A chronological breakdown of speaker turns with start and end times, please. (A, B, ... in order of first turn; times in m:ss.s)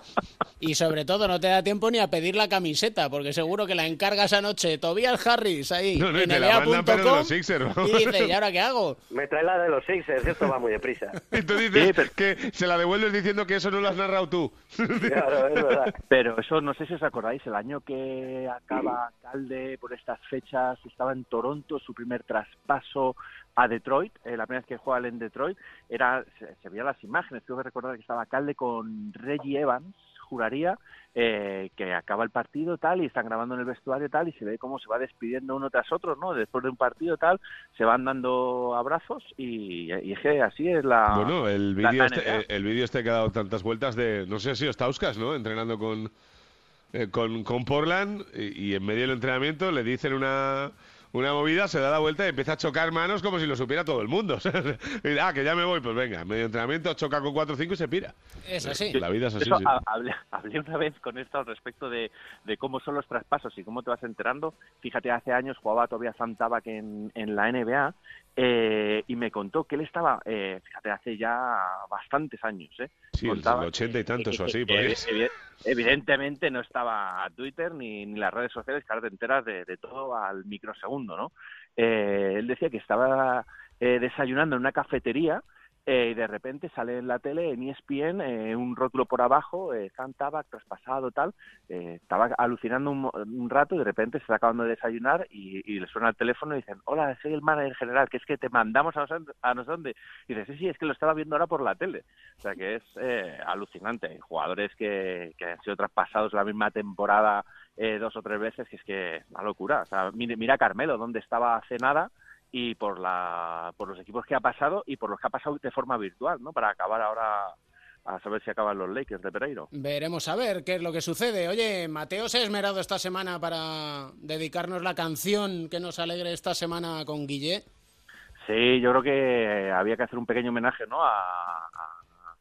0:00.6-0:09.0 A
0:06.0-0:08.3 B
0:09.1-0:11.2 C
0:11.3-0:15.3 B
0:11.7-0:12.1 D
0:15.0-0:16.0 C
0:16.1-0:42.4 D
0:41.1-0:46.1 B
0:46.9-0:59.7 B
0:58.5-0:59.0 A
0:59.4-1:59.7 D
1:13.1-1:15.1 B
1:59.7-2:07.6 A
2:08.4-2:12.0 D